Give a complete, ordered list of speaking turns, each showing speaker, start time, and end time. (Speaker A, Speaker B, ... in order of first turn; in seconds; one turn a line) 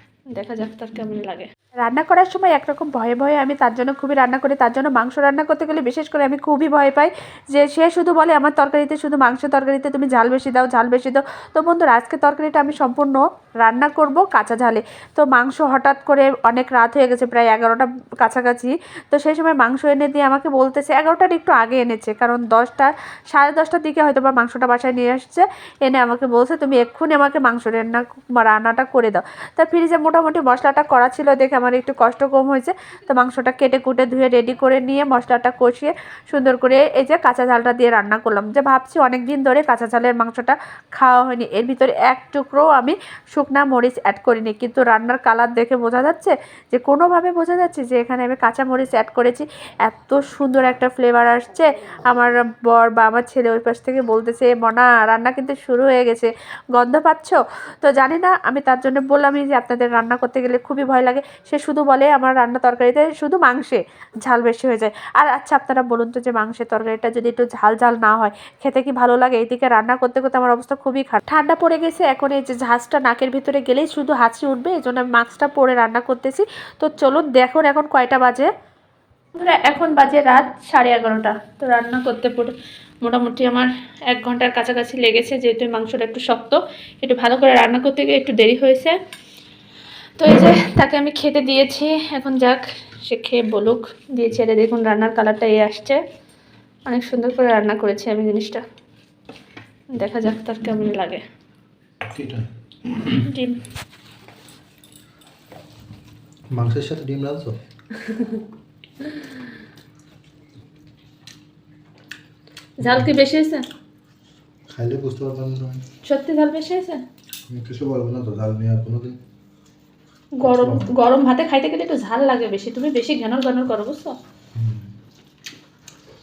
Speaker A: 0.3-1.5
Speaker B: 1.9-78.5
Speaker A: 79.4-89.0
Speaker A: 90.2-96.0
Speaker A: 96.9-98.6
Speaker A: 99.9-101.2
Speaker C: 102.1-103.1
Speaker A: 103.2-103.6
Speaker C: 106.5-107.5
Speaker A: 112.8-113.7
Speaker C: 114.7-115.8
Speaker A: 116.0-117.0
Speaker C: 117.5-119.2
Speaker A: 120.4-124.2
Speaker C: 120.4-120.9
Speaker C: 124.5-124.9